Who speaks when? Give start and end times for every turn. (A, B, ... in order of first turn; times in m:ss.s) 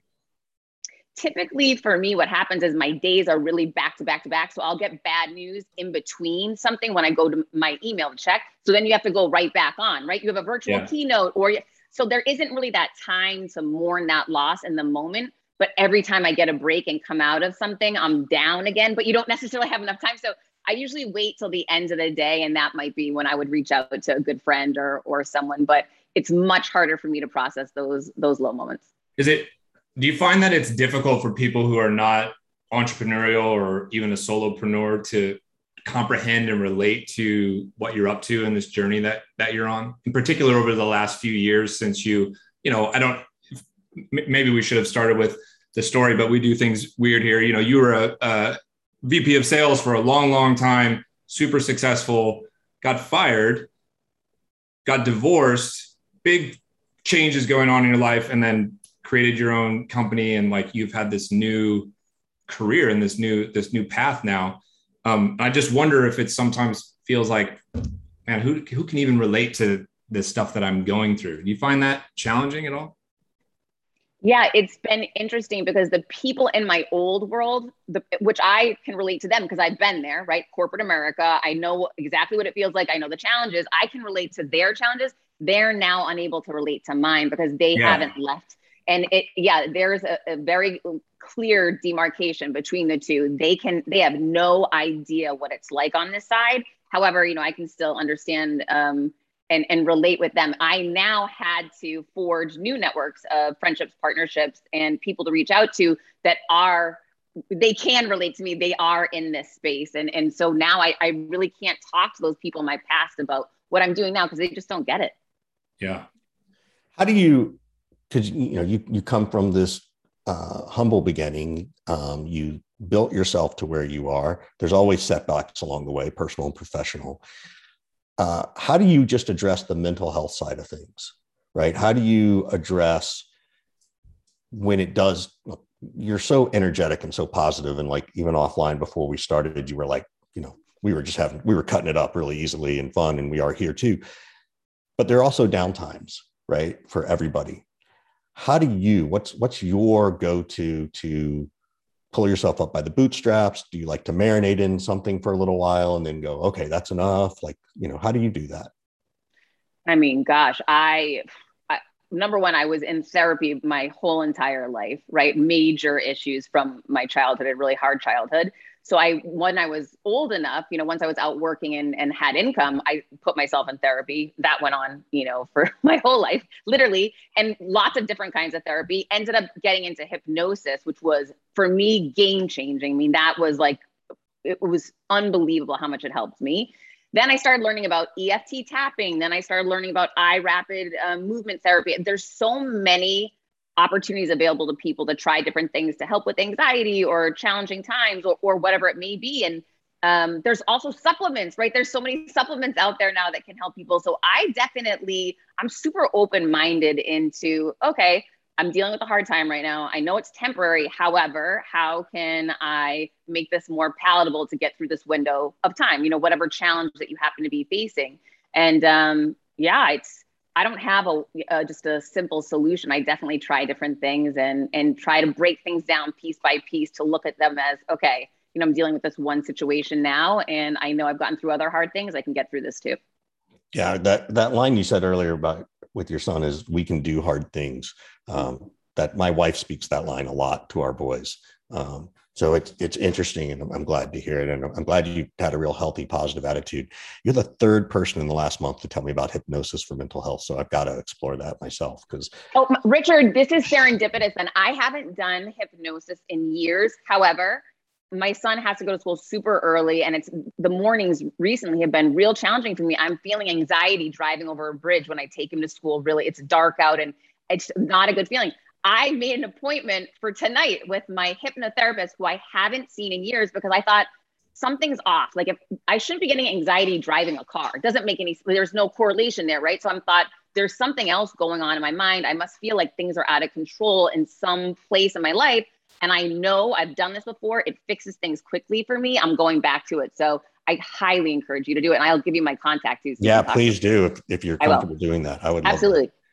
0:01.2-0:28.8 A
0:29.2-0:43.3 B
0:44.1-0:53.7 B
0:54.8-1:01.9 B
1:02.5-1:07.6 B
1:08.3-1:12.9 B
1:14.2-1:47.0 A
1:27.8-1:28.1 B
1:47.5-1:55.1 A
1:55.8-1:56.1 B
1:57.0-1:57.6 C
1:58.1-2:07.2 C
2:08.2-2:13.3 C
2:14.5-2:24.0 C
2:25.0-2:27.6 C
2:28.4-2:31.5 C
2:32.1-2:38.7 C
2:39.9-3:03.8 A
3:04.4-3:53.0 A
3:53.7-4:12.3 C
4:12.5-4:53.8 A
4:53.2-4:55.9 C
4:54.6-4:54.9 A
4:55.6-4:56.1 A